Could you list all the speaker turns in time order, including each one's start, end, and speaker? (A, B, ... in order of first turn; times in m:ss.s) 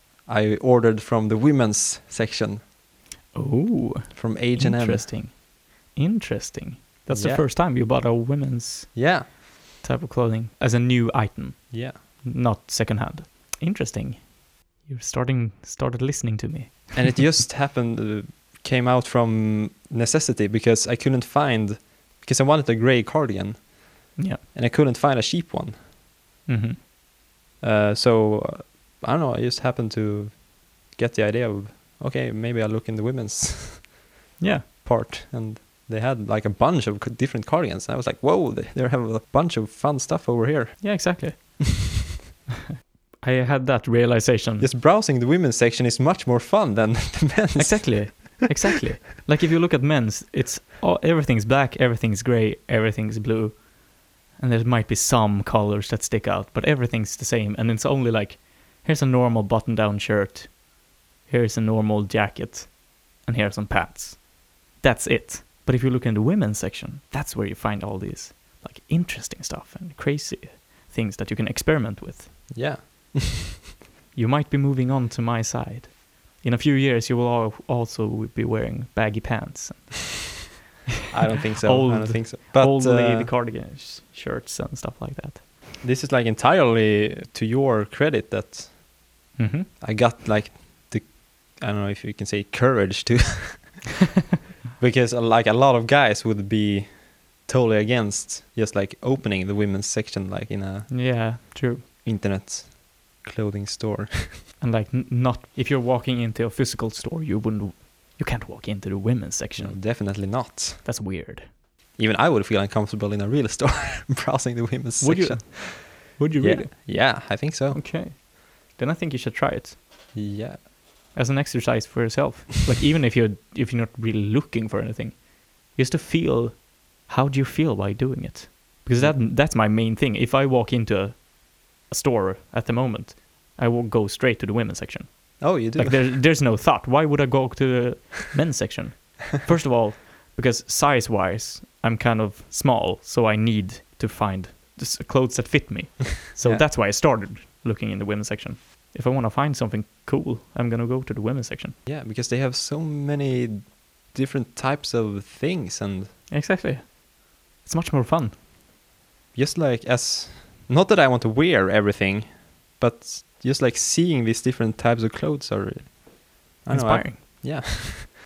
0:00.2-0:02.6 A
0:03.3-0:17.4 B
0:04.1-0:05.1 A
0:07.1-0:07.4 A
0:08.9-0:09.3 A
0:11.7-0:12.0 A
0:16.9-0:25.8 A
0:24.2-0:24.4 B
0:26.4-0:26.8 B
0:27.6-0:33.9 A
0:34.4-0:34.6 B
0:34.8-0:41.5 A
0:40.8-0:41.8 B
0:43.2-0:44.7 B
0:44.6-0:48.3 A
0:47.6-0:53.7 B
0:54.3-1:00.6 B
1:01.2-1:12.5 B
1:12.5-1:13.5 A
1:14.1-1:20.3 B
1:21.1-1:23.3 A
1:21.5-1:25.5 B
1:25.8-1:28.8 A
1:29.4-1:29.7 B
1:29.8-1:33.9 A
1:34.8-1:41.4 A
1:40.9-1:41.8 B
1:42.0-1:44.4 A
1:44.6-1:51.5 B
1:49.6-1:50.8 A
1:52.0-1:57.8 A
1:55.0-1:59.8 B
2:00.1-2:00.6 A
2:01.1-2:31.8 B
2:08.9-2:09.2 A
2:15.4-2:16.1 A
2:26.4-2:26.6 A
2:31.8-2:36.2 A
2:36.3-2:37.0 B
2:37.6-2:38.4 B
2:39.3-2:48.1 A
2:46.7-2:47.7 B